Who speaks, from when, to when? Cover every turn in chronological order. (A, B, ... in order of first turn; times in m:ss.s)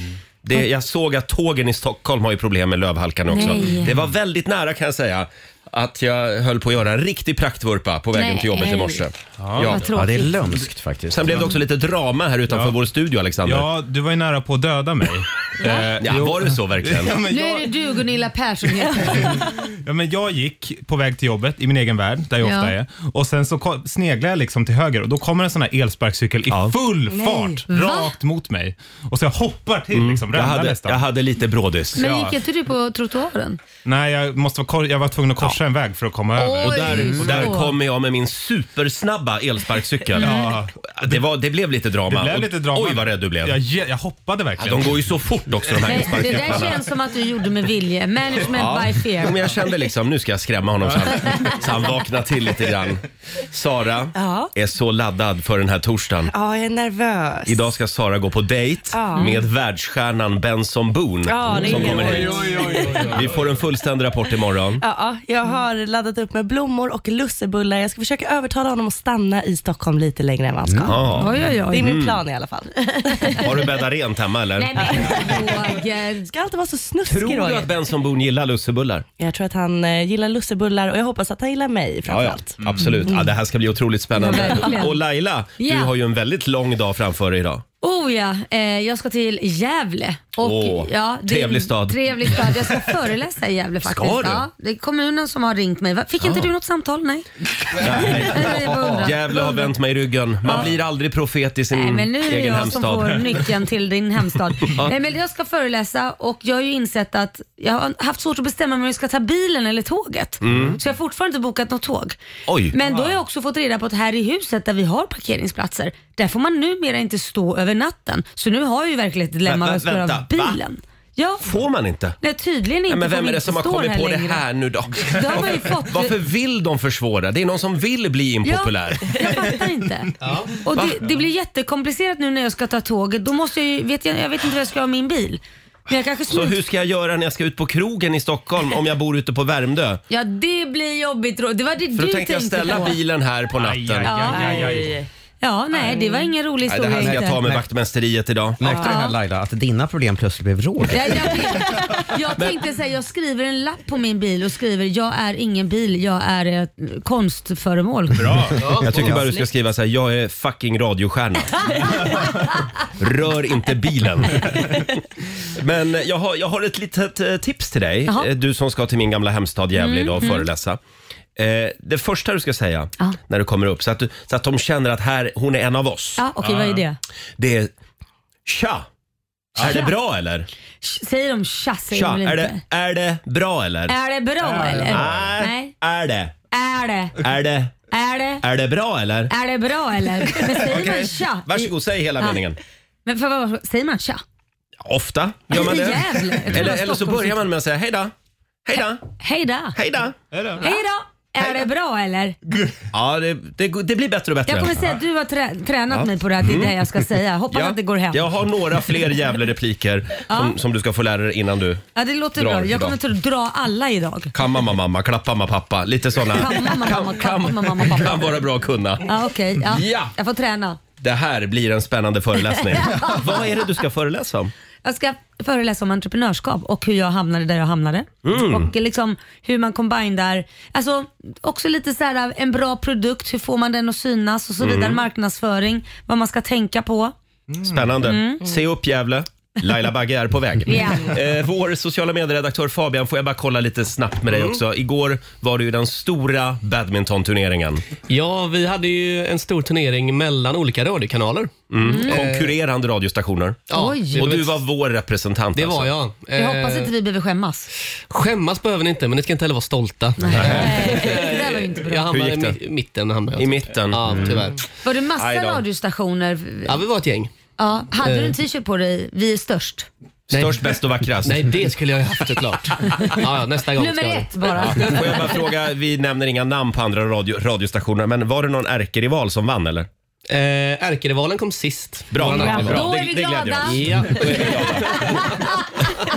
0:00.4-0:09.8 A
0:03.3-0:03.9 B
0:08.2-0:09.0 B
0:09.4-0:09.8 C
0:09.6-0:10.4 B
0:09.9-0:11.5 D
0:11.1-0:13.7 A
0:12.5-0:12.8 C
0:13.4-0:17.7 C
0:16.0-0:17.2 A
0:17.2-0:19.4 B
0:19.0-0:31.0 C
0:22.4-0:22.7 B
0:26.5-0:26.8 A
0:27.1-0:27.5 E
0:27.5-0:28.2 B
0:29.9-0:32.0 A
0:32.0-0:32.4 C
0:32.0-0:33.6 B
0:33.8-0:37.6 C
0:36.4-0:37.7 B
0:36.6-0:40.4 A
0:40.1-0:41.2 C
0:40.2-0:40.5 B
0:40.9-0:43.6 A
0:42.1-0:45.0 C
0:44.6-0:46.8 A
0:45.7-0:46.7 C
0:45.9-0:49.4 B
0:48.4-0:56.3 A
0:54.2-0:54.5 E
0:56.3-0:57.7 E
0:57.5-1:04.8 A
0:58.9-0:59.4 E
1:01.2-1:03.1 E
1:02.3-1:03.3 C
1:04.8-1:11.2 E
1:10.6-1:11.1 D
1:10.9-1:12.2 A
1:11.2-1:11.9 B
1:11.7-1:13.6 E
1:13.4-1:15.1 A
1:14.6-1:16.3 B
1:14.8-1:17.7 E
1:17.1-1:19.0 A
1:19.2-1:22.6 E
1:22.1-1:27.6 A
1:22.6-1:23.1 C
1:24.2-1:25.0 B
1:25.6-1:25.9 B
1:27.8-1:37.2 B
1:30.4-1:32.6 A
1:33.8-1:34.5 A
1:36.2-1:36.5 A
1:37.8-1:43.4 A
1:37.9-1:39.7 B
1:41.7-1:52.2 B
1:50.4-1:50.8 A
1:52.5-1:52.8 A
1:52.7-2:01.5 B
1:59.4-2:00.6 A
2:01.4-2:02.2 A
2:02.2-2:04.4 B
2:02.9-2:09.3 A
2:05.0-2:06.2 B
2:08.4-2:16.6 B
2:10.2-2:10.5 F
2:10.7-2:11.0 A
2:16.3-2:20.0 A
2:20.1-2:23.0 B
2:21.9-2:24.3 A
2:23.6-2:25.0 C
2:24.0-2:24.8 B
2:24.3-2:25.1 E
2:25.4-2:27.4 B
2:26.7-2:28.6 A
2:27.1-2:27.6 D
2:28.6-2:31.3 D
2:28.6-2:29.2 B
2:30.9-2:38.4 B
2:38.1-2:38.6 C
2:38.6-2:39.2 F
2:38.8-2:41.7 A
2:38.9-2:39.3 D
2:43.0-2:44.9 A
2:45.6-2:50.8 A
2:49.8-2:50.5 B
2:51.4-2:56.2 A
2:56.2-2:57.0 B
2:56.4-2:56.8 C
2:57.4-2:57.7 A
2:58.5-2:58.9 A
2:59.6-3:00.5 A
2:59.6-2:59.9 B
3:00.8-3:02.6 B
3:01.9-3:04.0 A
3:03.9-3:05.7 B
3:04.4-3:05.3 C
3:04.8-3:06.3 A
3:06.5-3:07.2 B
3:07.2-3:07.8 A
3:07.9-3:08.4 B
3:08.4-3:09.3 A
3:09.3-3:12.4 B
3:10.5-3:12.6 A
3:13.1-3:14.2 B
3:14.8-3:18.1 A
3:15.5-3:17.4 B
3:18.6-3:19.0 A
3:19.2-3:19.8 B
3:19.8-3:20.2 A
3:20.3-3:20.7 C
3:20.6-3:22.4 B
3:22.9-3:24.8 A
3:24.5-3:28.2 B
3:25.9-3:26.8 A
3:27.5-3:31.8 A
3:30.3-3:30.6 B
3:32.0-3:34.3 B
3:32.4-3:33.0 A
3:34.3-3:39.1 A
3:36.4-3:38.4 B
3:39.0-3:40.8 B
3:39.6-3:40.1 A
3:41.0-3:44.5 A
3:42.7-3:43.4 B
3:44.8-3:57.2 B
3:48.2-3:48.7 A
3:54.6-3:55.0 A
3:57.5-3:57.8 C
3:57.6-4:07.8 A
3:58.0-3:58.4 B
4:00.7-4:01.1 B
4:04.3-4:04.6 F
4:08.1-4:12.6 F
4:11.7-4:15.9 A
4:11.8-4:12.2 B
4:13.7-4:14.6 F
4:13.7-4:14.2 B
4:15.6-4:16.9 F
4:16.4-4:17.7 B
4:18.1-4:24.6 F
4:20.2-4:22.1 B
4:20.3-4:21.2 A
4:22.1-4:22.6 A
4:23.4-4:24.4 A
4:24.1-4:24.4 D
4:24.8-4:26.8 B
4:25.2-4:25.6 A
4:26.7-4:27.3 F
4:27.6-4:29.9 B
4:28.0-4:28.4 F
4:30.3-4:31.6 A
4:30.3-4:30.6 F
4:31.2-4:35.0 F
4:33.8-4:35.4 B
4:34.6-4:39.9 A
4:40.3-4:43.0 F
4:42.1-4:45.3 A
4:42.4-4:44.5 B
4:43.6-4:45.4 F
4:45.2-4:45.5 B